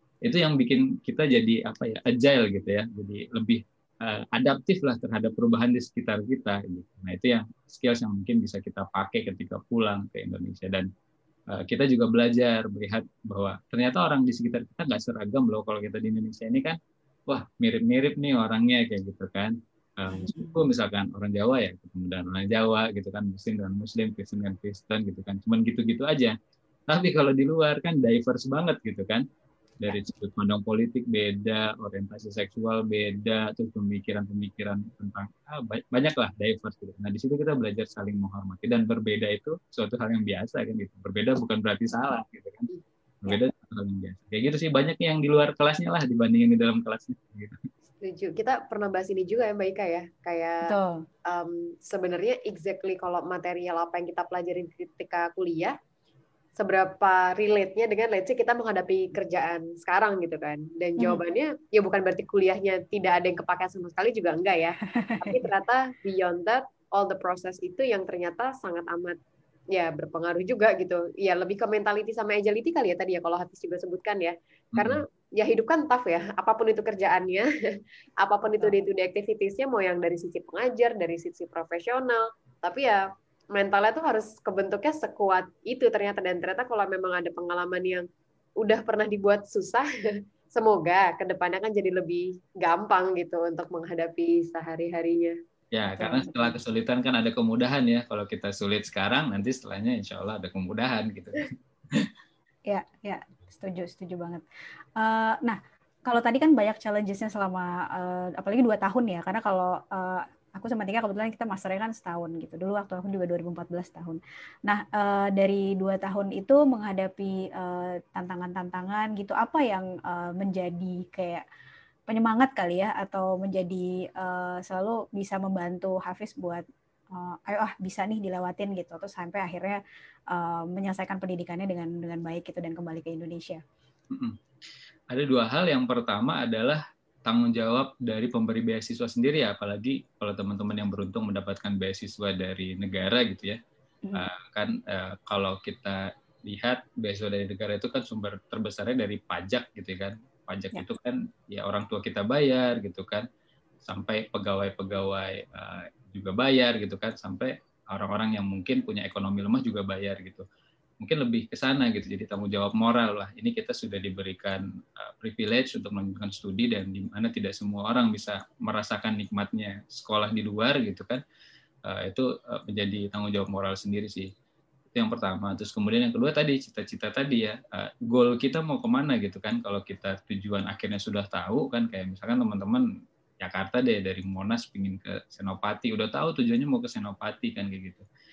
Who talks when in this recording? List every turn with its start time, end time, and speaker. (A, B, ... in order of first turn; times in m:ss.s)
0:00.2-0:10.9 A
0:11.5-0:26.4 A
0:20.1-0:20.6 B
0:26.9-0:29.2 A
0:29.8-0:42.7 A
0:43.2-0:47.6 A
0:48.0-0:55.8 C
0:50.6-0:51.0 B
0:56.6-1:09.2 C
1:04.9-1:05.4 B
1:09.7-1:17.5 C
1:14.7-1:15.0 A
1:18.2-1:23.0 C
1:23.5-1:28.0 C
1:28.6-1:29.9 C
1:30.5-1:35.4 C
1:35.7-1:42.1 A
1:36.0-1:36.4 B
1:42.7-1:44.4 B
1:45.0-2:01.4 B
2:02.1-2:09.8 B
2:10.3-2:13.6 B
2:14.1-2:14.4 A
2:15.1-2:23.6 A
2:24.1-2:33.2 A
2:33.8-2:40.4 A
2:41.0-2:51.2 A
2:51.9-2:54.3 A
2:54.9-3:02.9 A
3:03.4-3:08.0 A